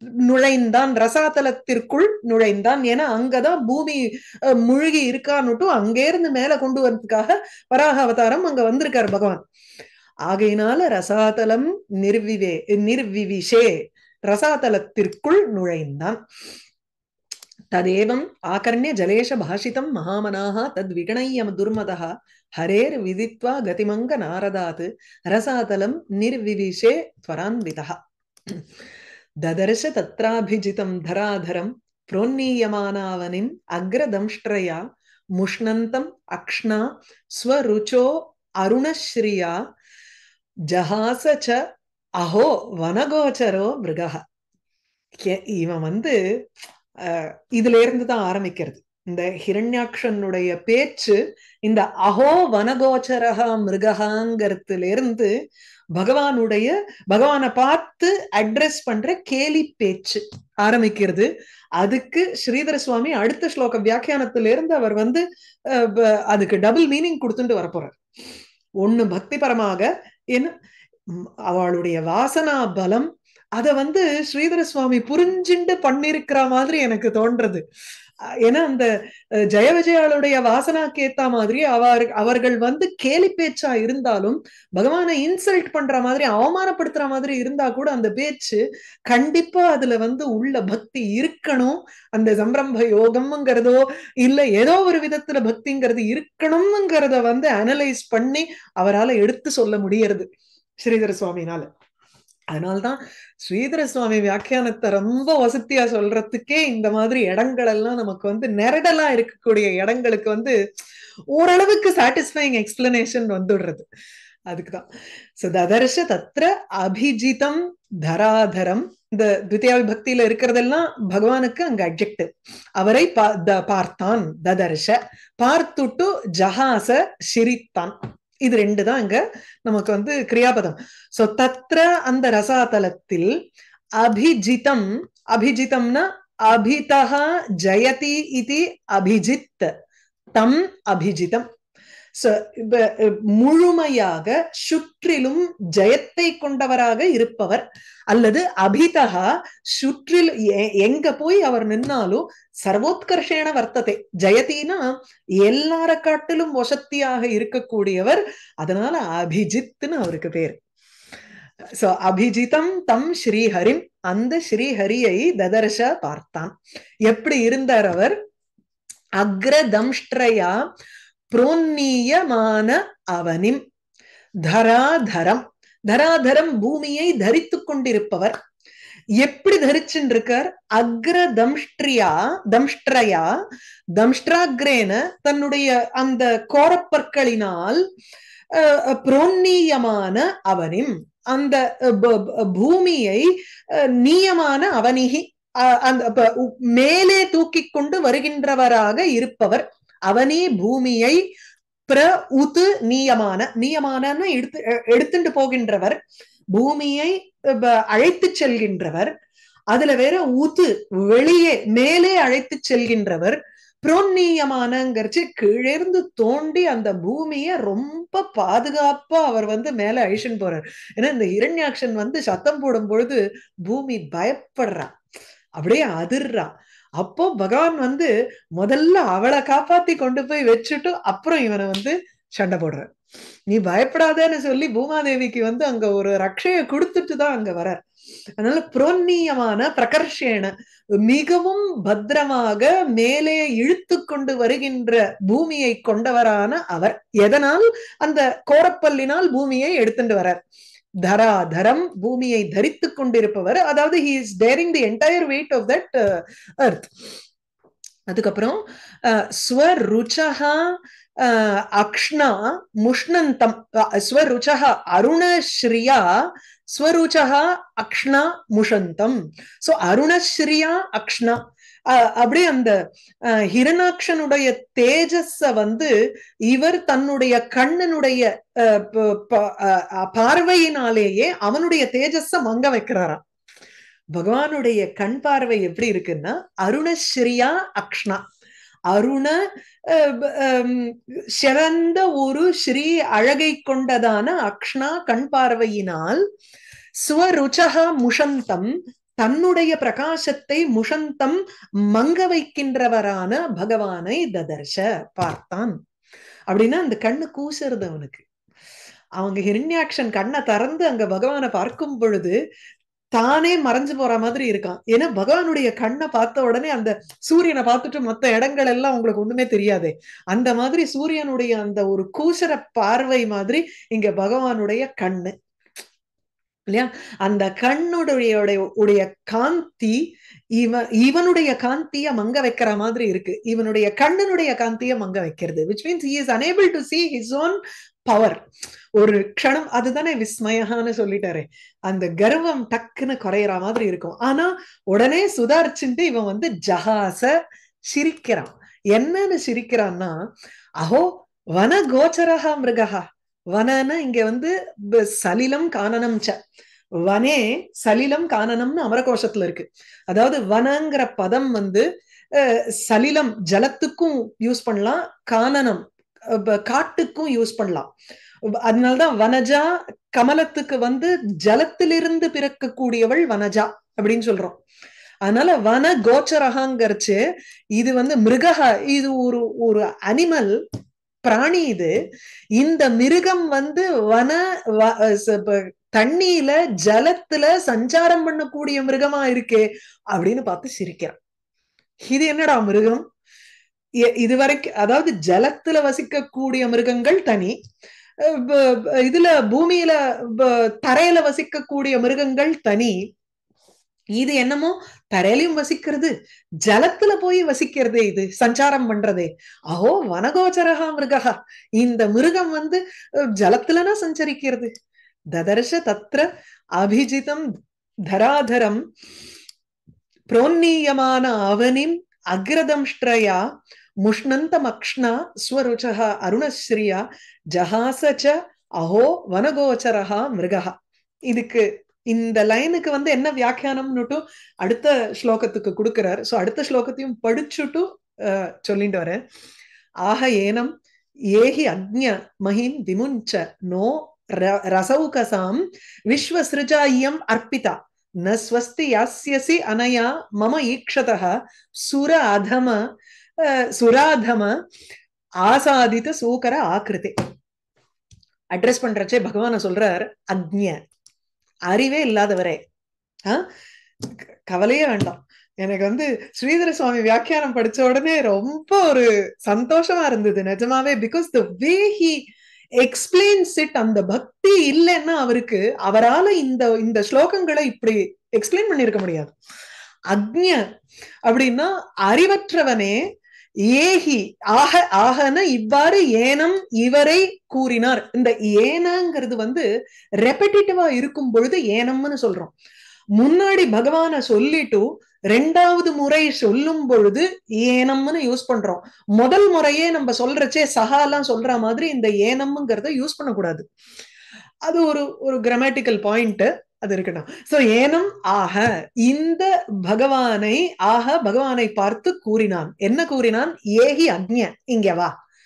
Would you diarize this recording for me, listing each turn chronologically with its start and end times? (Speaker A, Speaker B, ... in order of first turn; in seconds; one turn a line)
Speaker A: 0.2-9.4
Speaker A: 10.3-16.2
Speaker A: 17.7-27.9
Speaker A: 29.4-34.8
Speaker A: 35.4-39.6
Speaker A: 40.7-41.6
Speaker A: 42.2-44.2
Speaker A: 45.2-46.2
Speaker A: 47.0-55.3
Speaker A: 55.9-68.0
Speaker A: 68.8-70.5
Speaker A: 71.1-77.6
Speaker A: 78.4-78.9
Speaker A: 79.5-100.3
Speaker A: 100.8-101.7
Speaker A: 102.5-110.6
Speaker A: 111.3-113.8
Speaker A: 114.5-114.9
Speaker A: 115.4-133.3
Speaker A: 134.0-139.7
Speaker A: 140.3-141.4
Speaker A: 142.2-154.9
Speaker A: 155.4-160.6
Speaker A: 161.7-166.5
Speaker A: 167.1-168.1
Speaker A: 169.2-170.6
Speaker A: 171.3-173.6
Speaker A: 174.4-178.4
Speaker A: 179.2-183.3
Speaker A: 183.9-187.8
Speaker A: 188.5-201.2
Speaker A: 201.9-206.0
Speaker A: 206.5-209.1
Speaker A: 209.7-224.9
Speaker A: 225.6-232.9
Speaker A: 233.5-237.8
Speaker A: 238.4-240.5
Speaker A: 241.0-250.4
Speaker A: 251.1-256.9
Speaker A: 258.1-260.6
Speaker A: 261.2-271.4
Speaker A: 271.9-272.8
Speaker A: 273.3-275.9
Speaker A: 276.5-283.2
Speaker A: 284.1-288.2
Speaker A: 288.9-296.2
Speaker A: 297.0-301.4
Speaker A: 301.9-305.7
Speaker A: 306.5-308.2
Speaker A: 309.2-312.4
Speaker A: 313.1-325.4
Speaker A: 326.7-338.4
Speaker A: 339.0-347.4
Speaker A: 347.9-350.1
Speaker A: 350.8-353.0
Speaker A: 353.6-356.4
Speaker A: 357.0-367.9
Speaker A: 368.6-374.6
Speaker A: 375.2-377.2
Speaker A: 377.8-380.6
Speaker A: 381.2-381.9
Speaker A: 382.6-391.2
Speaker A: 392.1-393.0
Speaker A: 394.1-397.6
Speaker A: 398.2-403.0
Speaker A: 404.2-406.1
Speaker A: 406.6-412.8
Speaker A: 413.4-414.7
Speaker A: 415.3-416.2
Speaker A: 416.8-417.4
Speaker A: 418.1-418.8
Speaker A: 420.3-423.4
Speaker A: 424.0-427.0
Speaker A: 427.5-430.7
Speaker A: 431.3-439.2
Speaker A: 440.1-440.7
Speaker A: 441.3-452.8
Speaker A: 453.4-454.6
Speaker A: 455.4-457.1
Speaker A: 458.5-460.8
Speaker A: 461.7-462.6
Speaker A: 464.5-472.2
Speaker A: 472.8-479.3
Speaker A: 480.1-480.6
Speaker A: 481.3-483.0
Speaker A: 483.7-489.7
Speaker A: 490.2-492.5
Speaker A: 493.2-503.6
Speaker A: 504.6-515.1